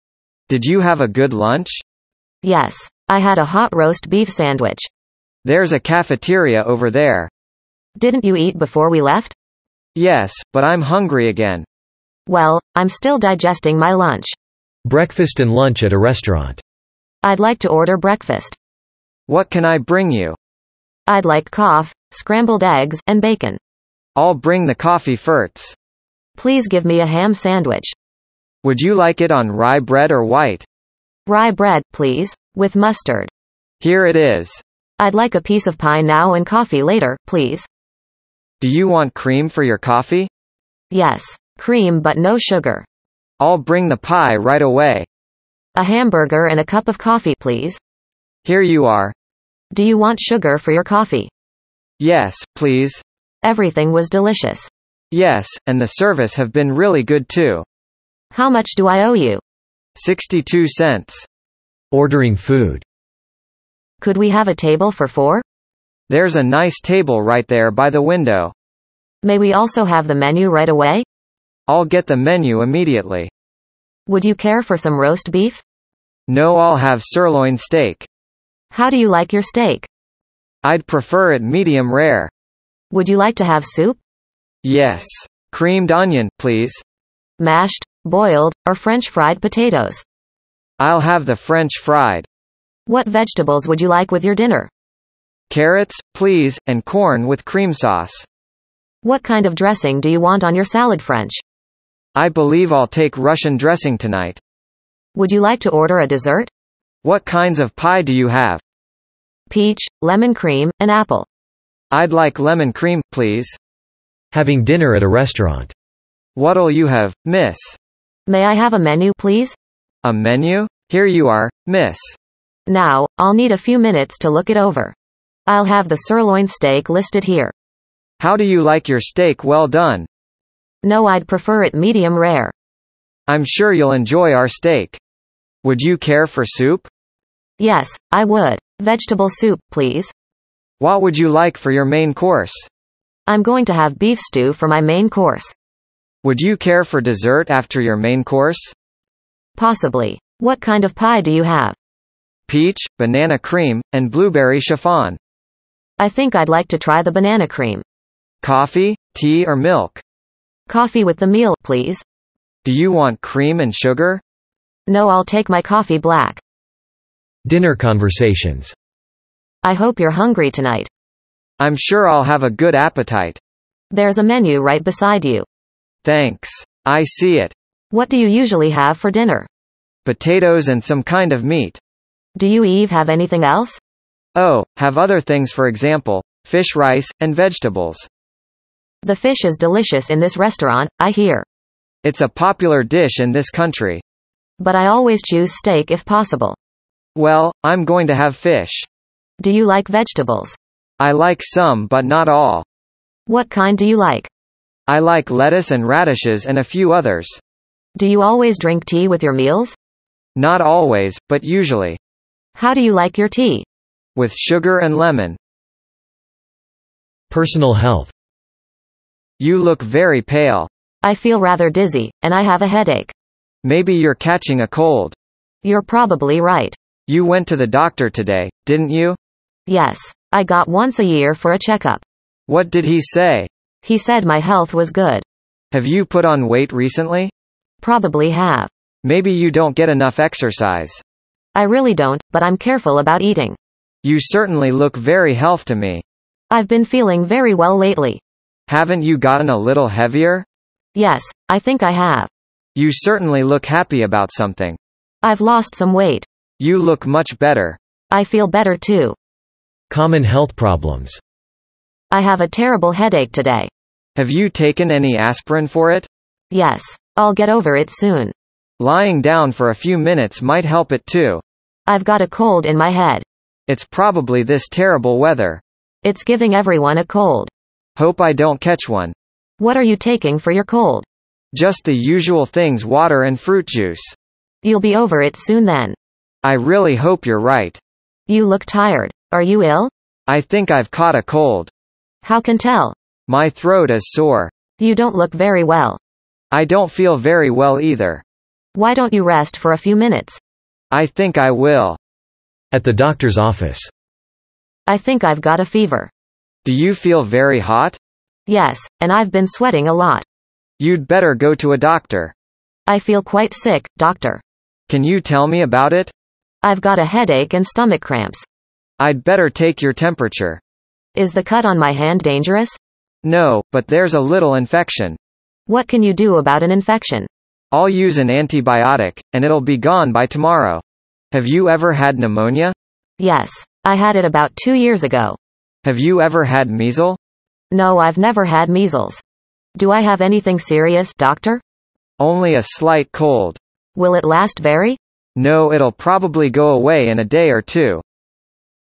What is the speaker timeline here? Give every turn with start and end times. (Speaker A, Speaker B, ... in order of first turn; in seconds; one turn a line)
Speaker A: 0.5-1.8
Speaker B: 2.4-4.9
Speaker A: 5.4-7.3
Speaker B: 8.0-9.3
Speaker A: 9.9-11.7
Speaker B: 12.3-14.4
Speaker C: 14.8-16.6
Speaker B: 17.2-18.6
Speaker A: 19.3-20.4
Speaker B: 21.1-23.6
Speaker A: 24.1-25.8
Speaker B: 26.4-27.9
Speaker A: 28.6-30.7
Speaker B: 31.3-33.3
Speaker A: 33.8-34.6
Speaker B: 35.0-37.7
Speaker A: 38.6-40.3
Speaker B: 40.9-42.9
Speaker A: 43.4-45.1
Speaker B: 45.8-47.8
Speaker A: 48.5-49.1
Speaker B: 49.7-51.3
Speaker A: 52.0-53.0
Speaker B: 53.4-54.7
Speaker A: 55.1-57.6
Speaker B: 58.3-59.4
Speaker A: 60.0-61.3
Speaker C: 61.9-62.8
Speaker B: 64.0-65.4
Speaker A: 66.1-68.5
Speaker B: 69.2-71.0
Speaker A: 71.7-73.3
Speaker B: 74.1-75.6
Speaker A: 76.3-78.1
Speaker B: 78.7-79.9
Speaker A: 80.6-82.3
Speaker B: 82.9-84.0
Speaker A: 84.6-86.8
Speaker B: 87.4-90.0
Speaker A: 90.8-92.3
Speaker B: 92.9-94.7
Speaker A: 95.5-98.3
Speaker B: 99.0-101.4
Speaker A: 102.1-104.4
Speaker B: 105.1-106.5
Speaker A: 107.0-108.6
Speaker B: 109.5-111.3
Speaker A: 111.9-113.6
Speaker C: 114.3-115.7
Speaker A: 116.4-117.8
Speaker B: 118.3-119.6
Speaker A: 120.0-122.2
Speaker B: 122.7-125.0
Speaker B: 125.5-127.5
Speaker A: 128.2-130.1
Speaker B: 130.8-132.5
Speaker A: 133.3-135.0
Speaker A: 135.6-136.9
Speaker B: 137.6-140.1
Speaker A: 140.8-142.7
Speaker B: 143.3-145.5
Speaker A: 146.2-148.8
Speaker B: 149.6-151.8
Speaker A: 152.5-155.2
Speaker B: 156.0-157.8
Speaker A: 158.4-160.0
Speaker B: 160.7-162.0
Speaker A: 162.6-164.2
Speaker B: 164.9-166.4
Speaker C: 167.4-168.7
Speaker B: 169.6-170.9
Speaker A: 171.6-173.4
Speaker B: 173.9-175.5
Speaker A: 176.0-177.5
Speaker B: 177.9-179.5
Speaker A: 180.1-181.8
Speaker B: 182.4-183.8
Speaker A: 184.3-188.1
Speaker B: 189.0-191.4
Speaker A: 192.0-194.0
Speaker B: 194.6-196.6
Speaker A: 197.1-198.9
Speaker B: 199.4-200.6
Speaker A: 201.0-202.6
Speaker B: 203.3-204.3
Speaker A: 204.9-207.4
Speaker B: 208.0-209.8
Speaker A: 210.4-212.0
Speaker B: 212.6-213.7
Speaker A: 214.2-215.4
Speaker C: 217.3-218.1
Speaker A: 219.4-220.7
Speaker B: 221.0-223.1
Speaker A: 223.6-225.2
Speaker B: 225.6-226.8
Speaker A: 227.1-229.2
Speaker B: 229.7-232.0
Speaker A: 232.5-233.5
Speaker B: 233.8-235.2
Speaker A: 235.7-237.3
Speaker B: 237.8-238.7
Speaker A: 239.0-241.0
Speaker B: 241.6-243.6
Speaker A: 244.0-246.0
Speaker B: 246.5-248.2
Speaker A: 248.7-250.5
Speaker B: 250.9-252.3
Speaker A: 252.8-254.8
Speaker B: 255.2-256.3
Speaker A: 256.6-257.8
Speaker B: 258.1-259.1
Speaker C: 259.9-261.2
Speaker B: 262.1-263.7
Speaker A: 264.1-266.1
Speaker B: 266.5-268.3
Speaker A: 268.8-271.4
Speaker B: 271.9-273.2
Speaker A: 273.7-275.6
Speaker B: 276.0-277.5
Speaker A: 278.0-279.1
Speaker B: 279.6-281.1
Speaker A: 281.5-284.1
Speaker B: 284.6-286.0
Speaker A: 286.4-287.8
Speaker B: 288.3-289.9
Speaker A: 290.3-291.7
Speaker B: 292.2-292.9
Speaker A: 293.3-294.5
Speaker B: 294.8-296.0
Speaker A: 296.5-298.2
Speaker B: 298.8-300.4
Speaker A: 300.9-302.0
Speaker C: 302.7-303.9
Speaker B: 304.9-306.1
Speaker A: 306.6-308.0
Speaker B: 308.5-310.2
Speaker A: 310.8-312.3
Speaker B: 312.9-314.4
Speaker A: 314.9-316.1
Speaker B: 316.6-318.5
Speaker A: 319.0-320.6
Speaker B: 321.1-322.8
Speaker A: 323.2-325.2
Speaker B: 325.7-327.3
Speaker A: 327.7-332.8
Speaker B: 333.2-335.4
Speaker A: 335.8-337.2
Speaker B: 337.7-339.2
Speaker B: 339.8-341.6
Speaker A: 342.2-343.6
Speaker B: 344.0-345.0
Speaker A: 345.4-348.0